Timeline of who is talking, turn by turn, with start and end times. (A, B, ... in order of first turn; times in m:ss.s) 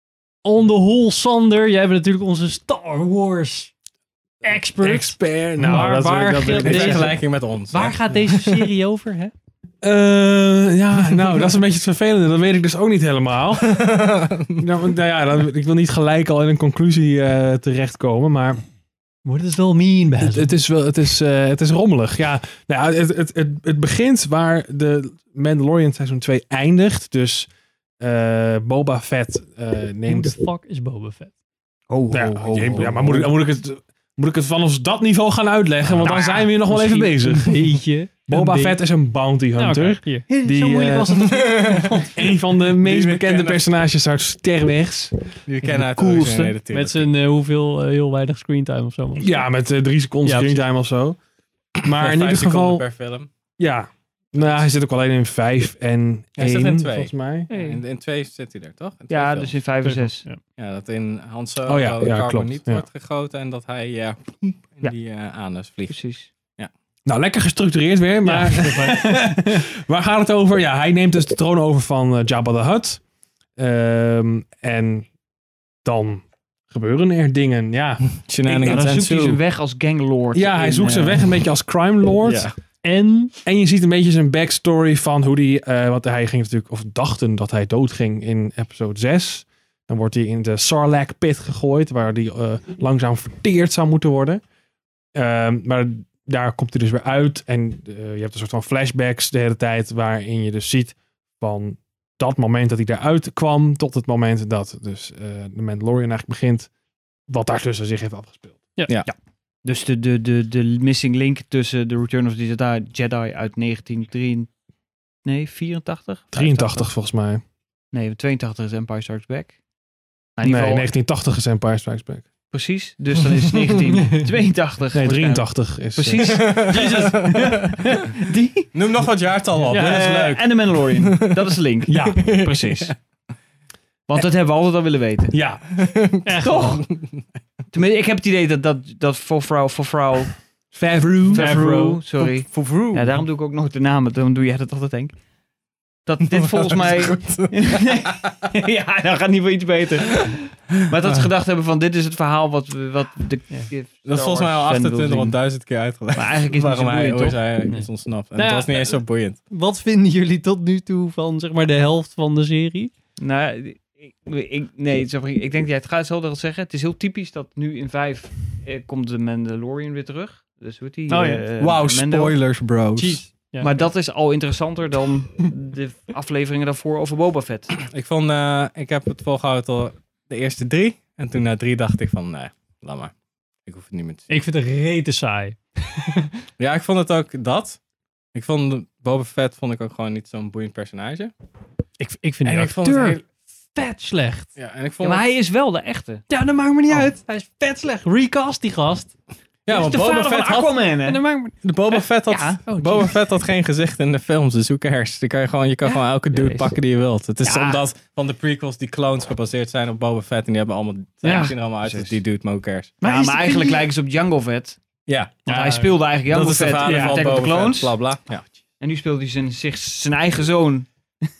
0:00.4-0:03.7 A
0:04.4-0:09.3 A
0:04.8-0:07.1 B
0:06.4-0:08.7 C
0:09.8-0:13.7 B
0:13.6-0:14.6 C
0:14.6-0:18.6 B
0:19.2-0:20.6 A
0:20.2-0:27.5 B
0:28.0-0:30.4 B
0:30.0-0:31.3 A
0:31.9-0:33.3 D
0:32.1-0:37.7 B
0:36.1-0:38.8 A
0:38.3-0:41.1 B
0:39.5-0:42.3 A
0:41.7-0:41.9 C
0:42.1-0:45.1 B
0:42.8-0:43.7 C
0:45.4-0:47.1 C
0:45.6-0:46.6 D
0:46.7-0:49.4 A
0:49.2-0:51.2 B
0:50.2-0:50.6 A
0:51.8-0:52.8 B
0:51.9-0:53.3 C
0:53.6-0:57.5 B
0:54.4-0:54.7 C
0:56.4-0:59.7 C
0:57.5-0:57.8 A
0:59.1-1:00.2 D
0:59.8-1:00.4 A
1:00.6-1:06.0 C
1:01.6-1:02.8 B
1:05.9-1:06.3 D
1:07.0-1:13.0 B
1:08.2-1:09.5 A
1:13.6-1:15.1 B
1:15.8-1:18.0 B
1:18.2-1:19.4 C
1:18.4-1:21.2 D
1:20.3-1:22.5 B
1:22.2-1:22.6 C
1:22.8-1:23.3 A
1:23.4-1:34.4 B
1:35.2-1:46.7 B
1:47.3-1:48.7 B
1:49.0-1:54.5 D
1:55.2-1:56.9 D
1:56.3-1:57.4 B
1:57.9-1:59.5 D
2:00.4-2:00.9 D
2:00.4-2:02.2 B
2:02.5-2:06.7 D
2:04.9-2:06.5 B
2:06.2-2:07.6 C
2:06.7-2:07.2 A
2:07.2-2:08.7 D
2:08.7-2:11.4 C
2:09.7-2:10.3 B
2:09.7-2:10.0 A
2:09.8-2:12.9 D
2:11.9-2:12.2 B
2:12.0-2:12.9 C
2:14.1-2:15.4 D
2:15.3-2:15.6 B
2:15.8-2:17.2 C
2:16.2-2:16.8 A
2:16.4-2:16.8 D
2:17.7-2:20.3 D
2:20.7-2:21.6 B
2:21.3-2:25.2 D
2:21.3-2:22.0 A
2:22.6-2:23.0 B
2:26.0-2:35.4 D
2:26.2-2:28.5 C
2:34.0-2:39.4 C
2:36.1-2:37.4 D
2:37.6-2:42.9 A
2:43.2-2:52.4 D
2:51.1-2:51.4 A
2:51.6-2:53.2 C
2:53.0-2:53.8 A
2:53.6-2:57.8 D
2:57.9-3:03.1 C
3:03.6-3:04.3 C
3:04.3-3:05.6 A
3:06.6-3:07.8 C
3:08.3-3:11.3 C
3:12.0-3:14.5 A
3:12.4-3:13.2 C
3:14.6-3:15.3 C
3:15.0-3:16.2 D
3:16.3-3:19.1 A
3:19.6-3:20.8 C
3:19.7-3:21.2 D
3:21.0-3:21.5 A
3:21.6-3:33.0 C
3:22.3-3:22.6 D
3:22.6-3:23.2 A
3:25.8-3:26.7 D
3:27.4-3:27.8 D
3:31.2-3:32.2 D
3:33.0-3:34.8 D
3:35.1-3:35.5 C
3:35.4-3:38.1 D
3:35.5-3:36.0 A
3:36.3-3:38.4 C
3:38.8-3:40.9 D